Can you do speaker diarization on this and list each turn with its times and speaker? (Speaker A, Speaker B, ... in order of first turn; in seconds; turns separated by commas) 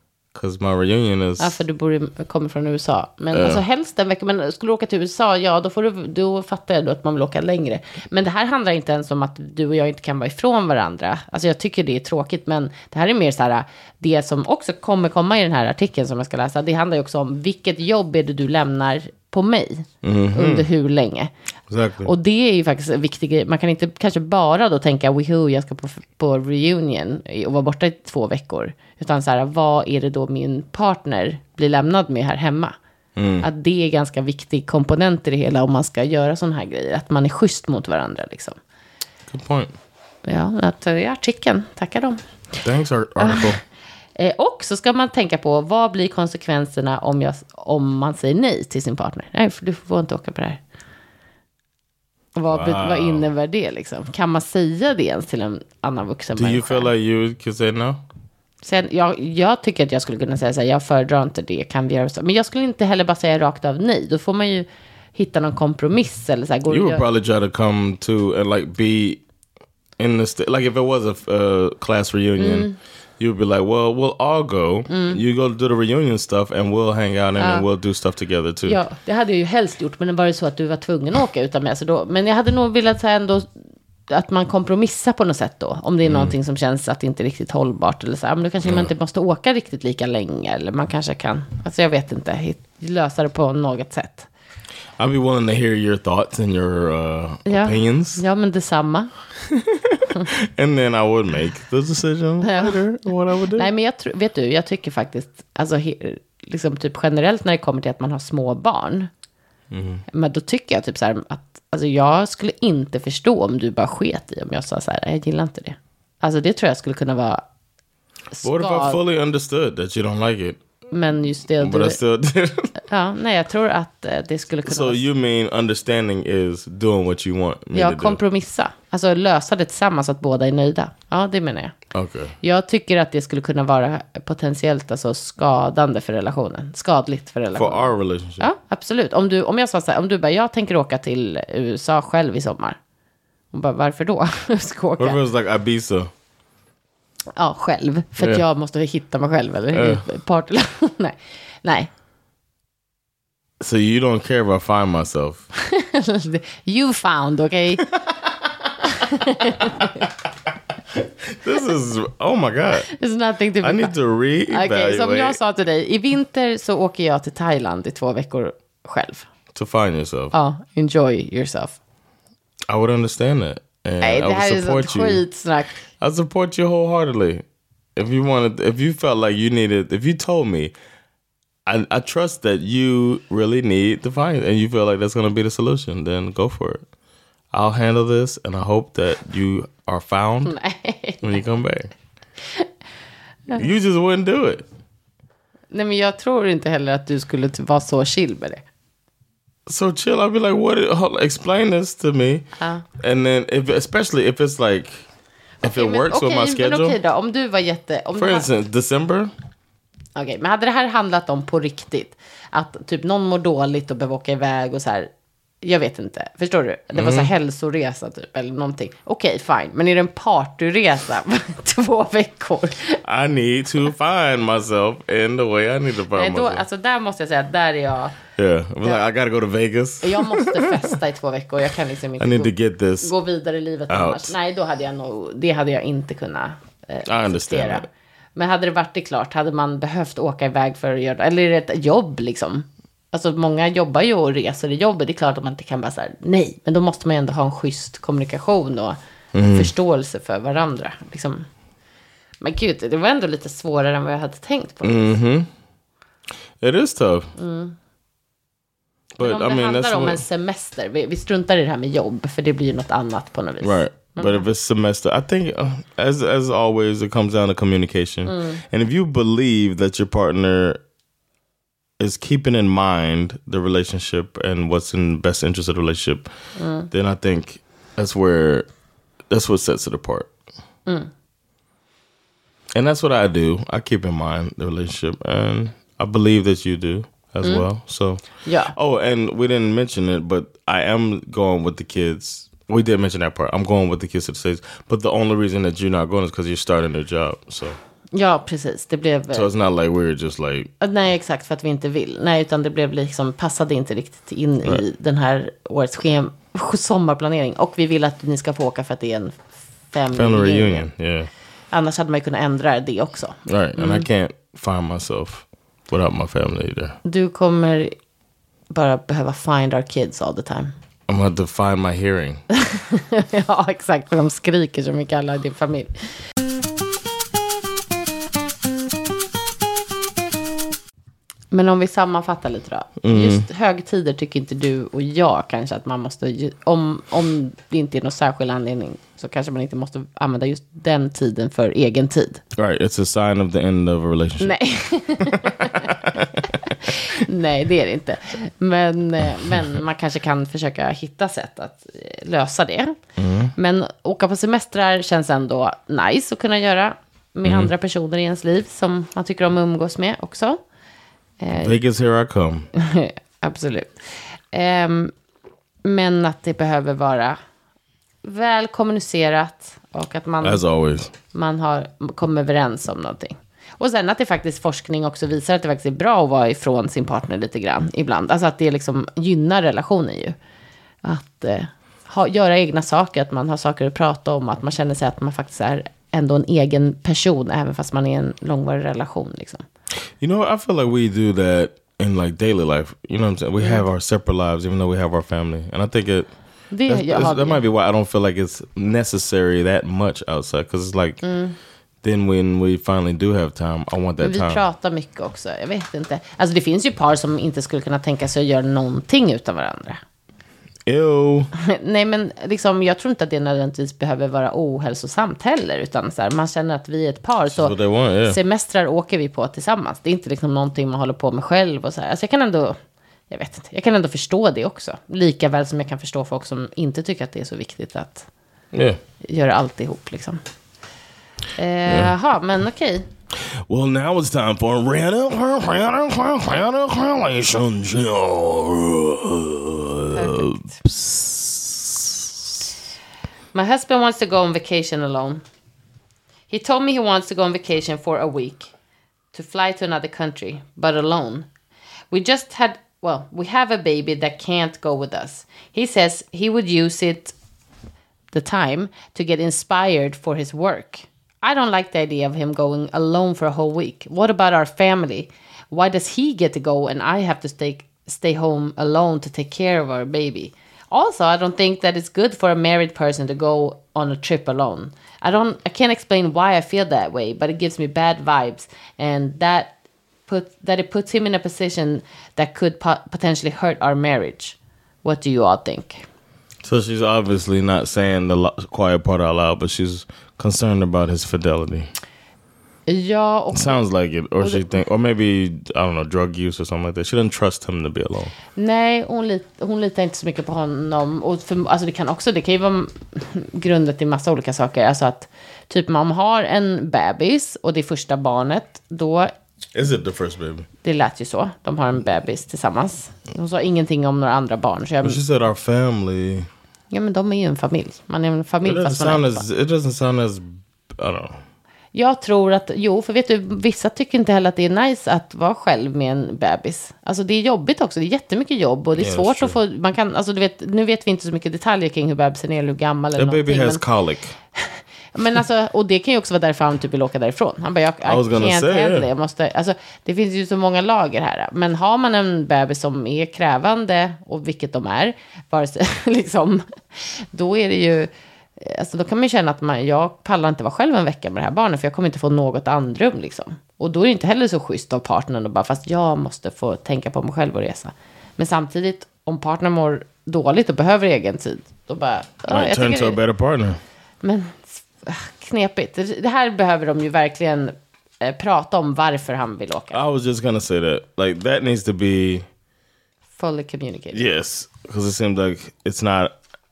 Speaker A: 0.3-1.6, Speaker B: 1.4-21.3, Speaker A: 3.3-3.6, Speaker A: 20.0-20.7, Speaker A: 21.7-22.1, Speaker B: 22.1-32.8, Speaker A: 33.1-33.5, Speaker B: 33.4-38.6, Speaker A: 39.3-39.7, Speaker B: 40.2-42.2, Speaker A: 42.6-43.6, Speaker B: 43.2-43.5, Speaker B: 44.1-50.6, Speaker B: 52.4-56.9, Speaker A: 52.5-53.2, Speaker A: 56.4-58.0, Speaker B: 58.6-67.0, Speaker A: 66.7-69.2, Speaker A: 70.0-72.7, Speaker B: 72.4-72.8, Speaker A: 73.2-78.8, Speaker B: 74.9-75.2, Speaker B: 77.4-77.7, Speaker B: 78.7-83.5, Speaker B: 84.1-94.3, Speaker A: 86.0-86.3, Speaker A: 88.6-88.9, Speaker A: 95.0-98.2, Speaker B: 97.5-99.1, Speaker A: 99.5-103.7, Speaker B: 102.4-102.8, Speaker B: 103.5-109.1, Speaker A: 109.7-110.0, Speaker B: 110.1-117.4, Speaker B: 118.3-119.0, Speaker A: 118.4-120.6, Speaker B: 120.9-122.0, Speaker A: 121.6-122.8, Speaker B: 122.9-125.0, Speaker A: 124.7-128.2, Speaker B: 127.7-131.8, Speaker A: 131.9-132.4, Speaker B: 132.4-142.8, Speaker A: 137.6-138.5, Speaker B: 143.5-145.2, Speaker A: 145.0-146.1, Speaker B: 147.4-151.9, Speaker A: 148.2-148.4, Speaker A: 149.7-150.0, Speaker A: 153.6-155.5, Speaker B: 155.6-157.9, Speaker B: 158.9-160.1, Speaker A: 161.3-162.9, Speaker B: 162.9-163.9, Speaker A: 163.6-165.4, Speaker B: 164.5-169.3, Speaker A: 169.5-170.3, Speaker B: 170.3-171.8, Speaker A: 172.7-175.2, Speaker B: 174.0-175.8, Speaker A: 176.0-177.4, Speaker A: 178.0-180.7, Speaker A: 181.7-186.8, Speaker A: 187.5-190.5, Speaker B: 190.4-191.4, Speaker A: 191.2-191.9, Speaker A: 193.6-194.7, Speaker B: 195.7-198.6, Speaker A: 199.7-202.5, Speaker B: 202.6-202.8, Speaker A: 203.0-205.0, Speaker A: 205.6-207.0, Speaker B: 205.6-208.5, Speaker A: 208.2-209.3, Speaker B: 210.2-215.1, Speaker B: 215.6-223.0, Speaker A: 217.0-217.3, Speaker A: 223.0-226.6, Speaker B: 226.1-228.2, Speaker A: 228.4-230.7, Speaker B: 230.0-249.0, Speaker A: 232.2-233.1, Speaker A: 233.9-234.3, Speaker A: 237.1-237.9, Speaker A: 249.3-249.7, Speaker B: 249.5-251.5, Speaker B: 252.4-255.1, Speaker A: 254.8-255.5, Speaker A: 256.6-257.3, Speaker B: 257.4-257.8, Speaker A: 259.2-260.2, Speaker B: 259.2-264.4, Speaker A: 263.6-270.8, Speaker B: 268.3-268.6, Speaker A: 272.0-276.3, Speaker B: 276.6-276.9, Speaker A: 276.9-278.6, Speaker A: 279.3-280.3, Speaker A: 282.8-297.8, Speaker B: 288.4-288.7, Speaker B: 298.1-299.5, Speaker A: 299.3-300.7, Speaker B: 300.8-310.9, Speaker A: 310.1-311.3, Speaker B: 311.7-314.1, Speaker A: 313.5-317.0, Speaker B: 317.1-317.9, Speaker B: 318.7-320.7, Speaker A: 321.1-322.4, Speaker B: 322.5-325.9, Speaker B: 331.5-342.4, Speaker A: 333.0-333.5, Speaker A: 342.6-344.6, Speaker B: 344.4-345.9, Speaker A: 345.3-346.6, Speaker B: 346.8-353.0, Speaker A: 353.2-353.5, Speaker B: 353.6-360.6, Speaker A: 357.4-357.7, Speaker B: 361.4-361.8, Speaker A: 361.6-362.7, Speaker B: 362.8-364.0, Speaker B: 364.5-365.1, Speaker B: 365.9-367.4, Speaker B: 368.2-370.6, Speaker A: 370.4-371.1, Speaker B: 371.3-380.4, Speaker B: 381.0-389.6, Speaker A: 390.2-396.3, Speaker B: 396.7-397.6, Speaker A: 396.9-401.2, Speaker B: 401.2-401.6, Speaker A: 402.0-404.6, Speaker B: 404.2-410.0, Speaker A: 410.9-411.5, Speaker B: 411.6-417.8, Speaker A: 417.5-418.4, Speaker B: 418.3-422.8, Speaker B: 423.3-428.3, Speaker A: 428.7-429.0, Speaker B: 429.2-430.4, Speaker B: 431.6-433.1, Speaker A: 433.7-442.3, Speaker B: 440.1-440.8, Speaker B: 443.5-445.4, Speaker B: 446.5-448.7, Speaker B: 449.3-451.5, Speaker B: 452.1-457.3, Speaker B: 458.3-486.1, Speaker A: 486.6-491.9, Speaker B: 492.9-493.8, Speaker A: 493.5-498.4, Speaker B: 494.4-494.8, Speaker B: 498.6-509.3, Speaker A: 509.8-510.7, Speaker B: 510.8-515.2, Speaker A: 515.0-516.5, Speaker B: 516.9-519.4, Speaker A: 518.6-521.4, Speaker B: 521.9-533.8, Speaker A: 529.0-529.6, Speaker A: 533.2-534.4, Speaker B: 534.6-563.2, Speaker A: 538.0-539.1, Speaker A: 562.5-563.8, Speaker B: 564.2-570.0, Speaker A: 569.9-572.5, Speaker B: 573.4-574.2, Speaker A: 574.1-576.3